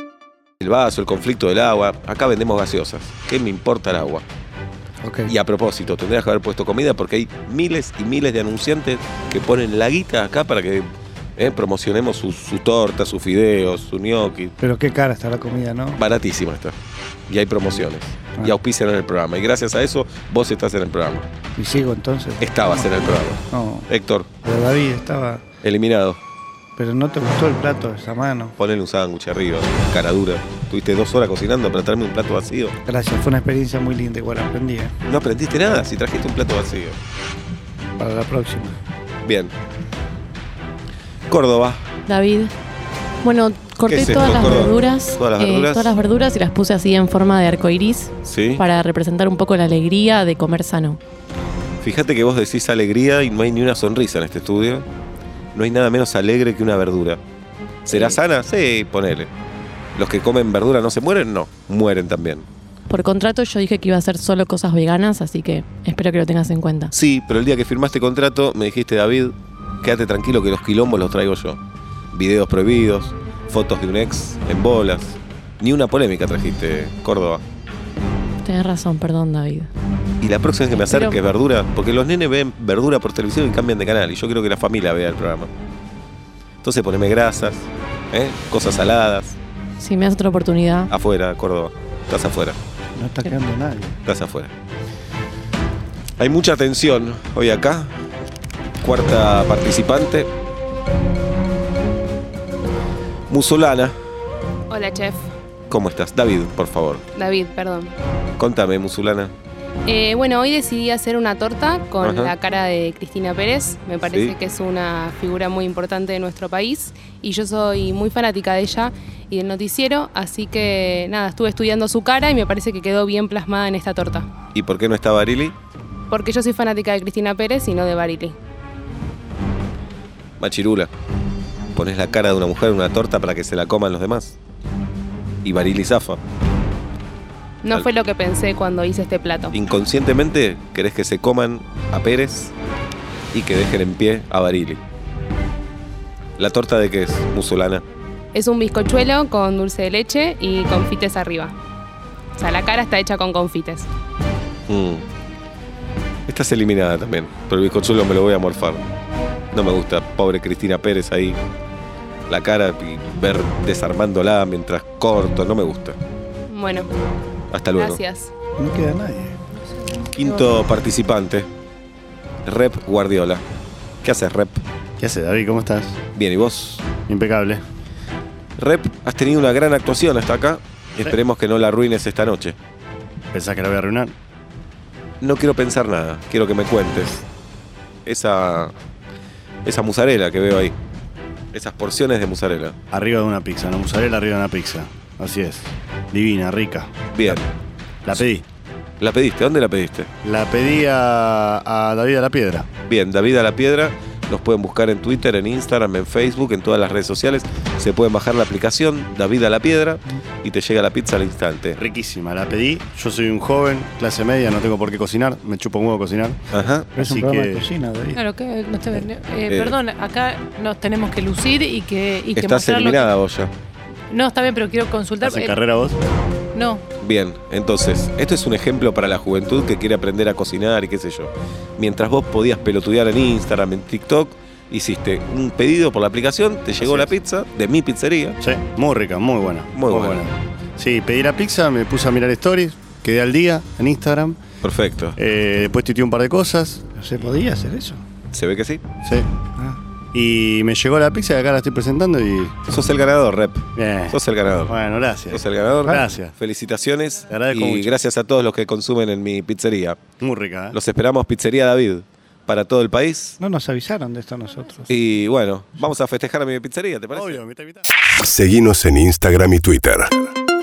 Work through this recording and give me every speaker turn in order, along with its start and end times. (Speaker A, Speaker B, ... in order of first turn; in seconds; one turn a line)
Speaker A: 0.6-4.2
Speaker B: 5.0-5.3
Speaker A: 5.3-14.5
Speaker B: 14.6-16.0
Speaker A: 16.0-16.7
Speaker A: 17.3-21.2
Speaker B: 21.6-23.0
Speaker A: 22.4-24.3
Speaker B: 23.5-23.9
Speaker B: 24.4-25.4
Speaker A: 25.6-26.2
Speaker B: 26.8-28.5
Speaker A: 28.6-32.7
Speaker B: 32.9-34.9
Speaker A: 35.0-37.0
Speaker B: 38.0-38.8
Speaker A: 39.2-39.5
Speaker A: 41.3-41.8
Speaker C: 42.1-42.5
Speaker C: 43.2-51.0
Speaker A: 43.9-46.0
Speaker A: 48.2-48.6
Speaker A: 51.8-54.9
Speaker A: 55.5-57.2
Speaker A: 57.9-59.3
Speaker C: 57.9-58.2
Speaker A: 60.0-62.5
Speaker C: 62.9-66.9
Speaker A: 66.9-71.6
Speaker A: 72.1-77.4
Speaker C: 78.4-79.7
Speaker A: 80.2-85.5
Speaker C: 80.7-81.2
Speaker A: 86.6-89.4
Speaker C: 89.8-90.9
Speaker A: 90.9-92.6
Speaker B: 92.9-94.0
Speaker A: 94.0-94.5
Speaker A: 96.2-97.9
Speaker A: 98.8-100.3
Speaker A: 103.3-103.9
Speaker D: 104.7-105.3
Speaker A: 105.7-107.0
Speaker D: 107.1-107.9
Speaker A: 108.4-109.3
Speaker D: 109.8-124.3
Speaker A: 112.0-112.3
Speaker A: 114.0-114.3
Speaker A: 124.5-125.5
Speaker D: 126.1-128.4
Speaker A: 130.4-130.9
Speaker A: 131.7-134.4
Speaker A: 135.4-136.2
Speaker D: 137.6-139.5
Speaker A: 139.5-142.5
Speaker A: 143.3-144.8
Speaker A: 146.4-147.8
Speaker D: 148.3-151.5
Speaker D: 152.4-153.9
Speaker A: 154.7-155.0
Speaker A: 156.3-158.8
Speaker A: 159.5-161.4
Speaker A: 162.3-166.0
Speaker D: 166.5-166.9
Speaker A: 167.5-168.0
Speaker D: 167.8-168.3
Speaker B: 168.6-169.3
Speaker A: 170.1-171.5
Speaker A: 172.4-173.4
Speaker A: 174.0-174.6
Speaker E: 175.0-176.0
Speaker A: 176.1-176.8
Speaker E: 177.1-177.6
Speaker A: 178.6-182.6
Speaker E: 183.3-184.1
Speaker A: 185.2-187.2
Speaker A: 188.1-188.7
Speaker A: 189.6-190.7
Speaker A: 191.5-192.8
Speaker E: 192.9-197.4
Speaker A: 197.1-197.5
Speaker E: 198.0-198.4
Speaker A: 199.0-200.1
Speaker E: 200.2-202.7
Speaker A: 202.9-211.8
Speaker E: 211.8-216.4
Speaker A: 216.5-216.9
Speaker B: 216.9-218.2
Speaker E: 217.0-217.7
Speaker F: 218.1-223.1
Speaker A: 219.5-219.8
Speaker A: 222.3-223.5
Speaker F: 224.1-225.6
Speaker E: 225.2-226.0
Speaker F: 226.5-226.8
Speaker A: 227.0-238.4
Speaker E: 236.8-237.1
Speaker E: 238.4-244.4
Speaker A: 239.7-240.2
Speaker A: 244.6-245.2
Speaker E: 245.2-247.2
Speaker B: 246.9-248.0
Speaker A: 248.3-248.8
Speaker E: 250.1-252.5
Speaker A: 252.7-254.8
Speaker E: 253.7-256.3
Speaker A: 255.3-260.0
Speaker E: 257.3-257.9
Speaker E: 260.2-260.8
Speaker A: 260.7-263.4
Speaker B: 263.4-264.9
Speaker A: 264.9-267.4
Speaker E: 267.1-267.9
Speaker G: 268.1-270.3